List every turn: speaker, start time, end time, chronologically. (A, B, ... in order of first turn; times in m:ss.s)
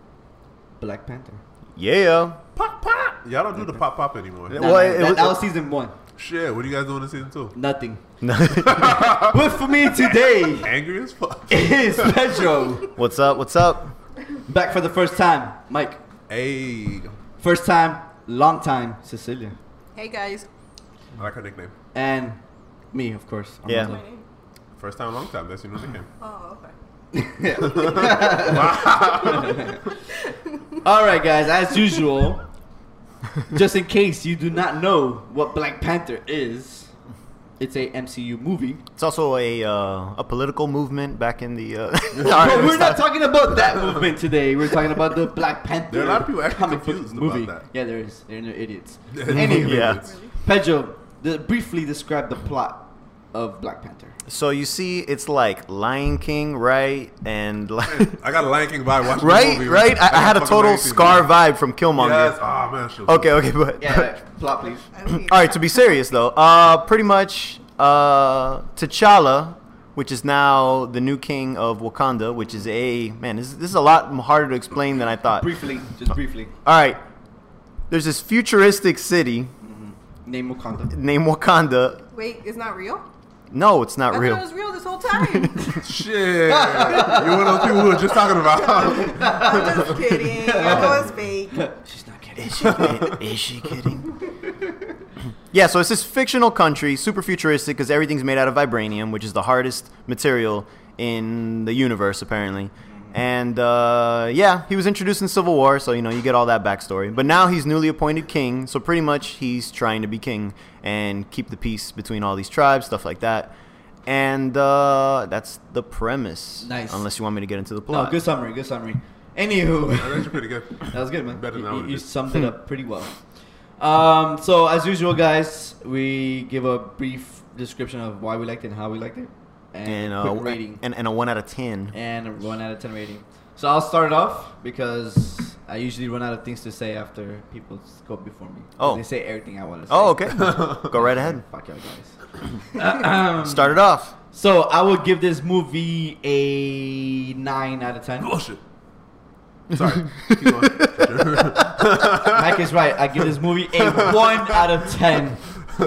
0:00.8-0:01.4 A
0:01.8-0:02.4 B
0:02.6-0:04.7 C
0:04.5-0:05.4 B
0:04.5-0:05.9 A
0:06.2-0:07.5 C
0:07.5-0:08.0 A
0:08.2-0:09.1 B
0:08.5-0:12.4 C
0:09.1-0:10.7 A
0:11.5-0:12.9 A
0:12.9-0:13.9 B
0:14.4-0:16.0 A
0:16.3-0:17.1 C
0:17.4-0:19.6 A
0:19.9-0:20.5 D
0:21.2-0:21.7 C
0:21.9-0:22.4 A
0:22.9-0:24.0 A
0:23.6-0:23.9 B
0:23.8-0:24.2 D
0:24.8-0:26.1 C
0:26.2-0:26.7 D
0:27.1-0:29.8 A
0:27.7-0:29.8 C
0:29.9-0:30.7 D
0:30.8-0:32.4 A
0:33.5-0:36.9 A
0:37.6-0:38.8 A
0:39.0-0:43.1 B
0:42.2-0:42.6 C
0:42.2-0:54.2 A
0:45.9-0:47.6 C
0:49.1-0:50.1 C
0:49.3-0:50.0 B
0:50.0-0:50.3 D
0:54.3-0:58.2 B
0:57.9-1:01.3 C
0:59.0-1:02.4 B
1:01.9-1:03.3 C
1:03.0-1:04.1 B
1:03.8-1:04.9 A
1:04.9-1:05.8 D
1:05.1-1:15.5 B
1:15.4-1:16.5 A
1:16.6-1:17.0 B
1:17.9-1:19.5 B
1:19.6-1:20.9 A
1:20.9-1:22.0 B
1:22.1-1:23.0 D
1:23.5-1:24.4 B
1:24.1-1:25.8 D
1:25.2-1:25.7 B
1:25.7-1:29.9 C
1:26.5-1:27.9 A
1:28.8-1:33.0 A
1:28.9-1:31.7 D
1:30.7-1:30.9 C
1:32.4-1:34.1 B
1:32.6-1:33.2 C
1:35.5-1:53.5 B
1:54.0-1:58.2 B
1:56.6-1:57.0 A
1:57.9-2:03.2 A
1:59.9-2:02.0 C
2:03.8-2:10.8 A
2:09.8-2:11.9 B
2:11.9-2:23.8 A
2:18.8-2:19.0 B
2:19.9-2:21.4 B
2:20.4-2:20.9 C
2:23.4-2:24.1 B
2:24.3-2:28.3 A
2:28.2-2:28.6 C
2:29.7-2:32.6 C
2:30.2-2:31.7 B
2:32.2-2:35.5 A
2:33.8-2:34.6 C